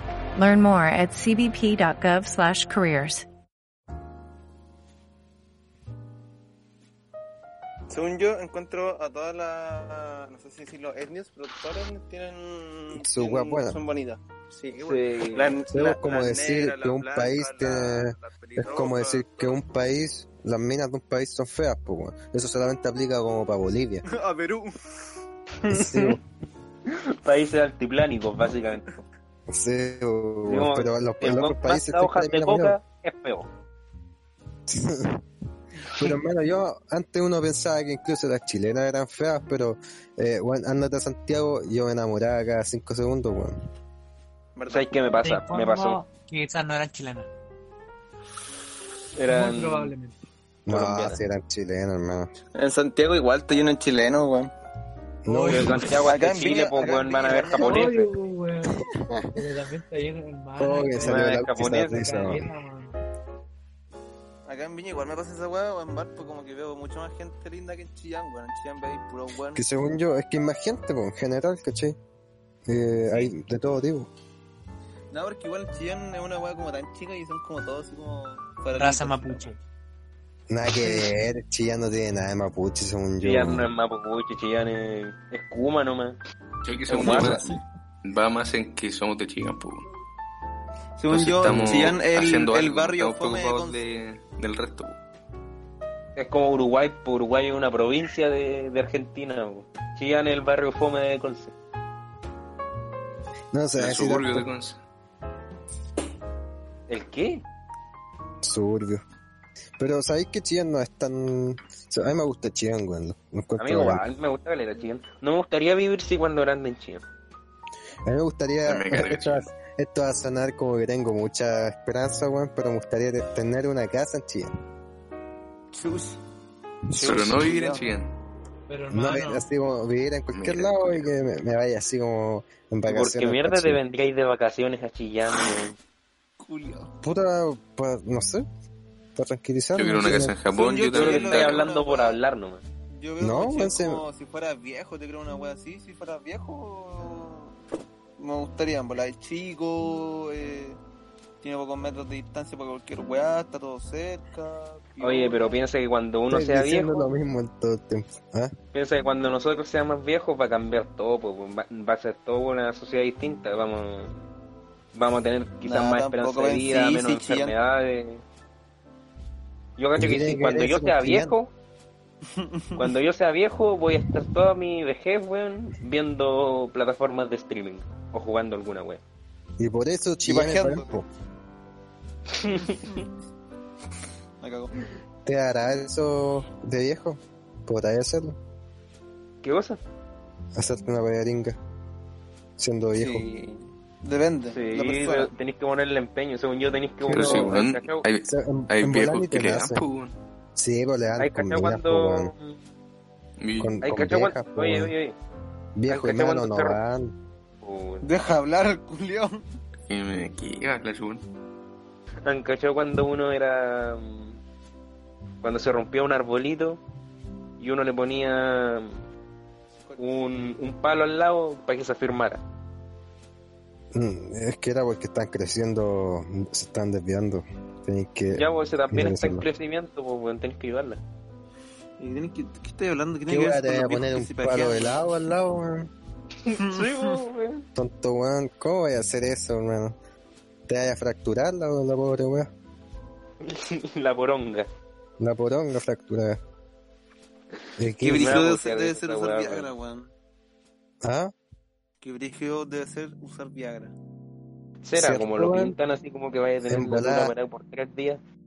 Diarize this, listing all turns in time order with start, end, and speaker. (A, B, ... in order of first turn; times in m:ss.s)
0:00.4-0:03.2 A
0:07.9-0:19.6 B
0:13.0-0:13.8 C
0:14.7-0:15.6 D
0:15.7-0:24.0 C
0:24.0-0:24.9 B
0:25.7-0:26.1 D
0:25.7-0:26.2 C
0:26.9-0:29.0 D
0:29.5-0:32.8 C
0:30.4-0:33.5 D
0:34.7-0:35.2 C
0:35.8-0:43.6 C
0:44.6-0:45.0 B
0:44.7-0:46.0 D
0:45.2-0:47.3 E
0:49.2-0:49.9 D
0:49.2-0:50.2 E
0:50.6-0:52.3 C
0:50.7-0:51.2 D
0:52.6-0:54.5 B
0:55.3-0:55.8 C
0:55.3-0:56.0 E
0:55.5-0:58.1 D
0:56.0-0:58.0 B
0:57.5-0:58.8 E
0:58.8-0:59.4 C
0:59.3-1:01.3 E
1:00.6-1:02.5 C
1:01.0-1:02.2 D
1:01.8-1:03.0 E
1:04.5-1:09.6 B
1:09.5-1:12.0 C
1:12.7-1:14.1 C
1:15.1-1:19.5 B
1:18.8-1:19.6 E
1:20.5-1:23.7 C
1:23.2-1:26.2 D
1:26.6-1:29.8 F
1:26.9-1:27.4 D
1:27.0-1:27.5 C
1:31.0-1:33.8 B
1:31.1-1:35.0 F
1:31.5-1:32.0 C
1:36.2-1:41.5 D
1:43.5-1:44.5 C
1:43.8-1:44.8 F
1:46.9-1:47.4 D
1:48.4-1:49.0 C
1:49.8-1:54.0 C
1:53.6-1:57.0 D
1:58.1-2:04.5 C
1:58.7-1:59.5 F
2:05.7-2:06.2 B
2:06.9-2:07.9 B
2:07.0-2:08.2 F
2:08.7-2:09.5 E
2:08.9-2:13.8 C
2:10.3-2:11.1 F
2:12.9-2:15.8 D
2:16.4-2:16.9 B
2:17.0-2:18.5 C
2:19.2-2:20.4 C
2:19.8-2:21.7 F
2:20.5-2:22.2 B
2:20.9-2:22.6 D
2:22.9-2:27.5 B
2:23.2-2:24.0 C
2:28.2-2:30.8 B
2:31.4-2:35.6 B
2:35.0-2:37.1 D
2:36.3-2:38.6 C
2:38.7-2:44.2 D
2:44.9-2:48.2 D
2:45.6-2:47.6 B
2:49.8-2:51.5 D
2:49.9-2:51.3 C
2:52.4-2:52.8 B
2:52.8-2:59.0 D
2:59.6-3:01.1 C
3:00.2-3:01.0 B
3:02.3-3:03.0 D
3:02.6-3:03.1 B
3:04.4-3:04.7 B
3:05.2-3:08.4 C
3:09.4-3:09.8 D
3:10.6-3:11.6 C
3:12.6-3:13.2 C
3:13.0-3:15.3 B
3:14.5-3:18.0 D
3:17.1-3:17.6 C
3:17.1-3:20.2 F
3:18.2-3:19.8 C
3:20.6-3:22.3 C
3:21.2-3:22.6 D
3:23.4-3:23.8 F
3:23.6-3:24.9 C
3:23.8-3:25.2 D
3:25.8-3:27.2 C
3:25.9-3:26.8 D
3:27.6-3:28.1 D
3:28.0-3:29.4 B
3:29.9-3:31.2 F
3:32.2-3:34.4 D
3:35.4-3:36.8 D
3:37.6-3:39.0 D
3:39.8-3:40.2 B
3:40.0-3:42.4 D
3:43.9-3:49.5 C
3:48.3-3:51.0 D
3:52.0-3:55.1 B
3:53.3-3:55.9 C
3:56.4-3:57.7 D
3:56.5-3:57.2 B
3:57.8-4:00.0 C
4:00.7-4:02.5 C
4:03.4-4:04.7 D
4:05.2-4:06.4 C
4:07.8-4:08.5 C
4:08.0-4:10.1 B
4:08.0-4:09.7 D
4:11.0-4:11.3 C
4:12.0-4:14.0 B
4:14.8-4:18.2 D
4:15.0-4:15.8 C
4:16.7-4:17.3 C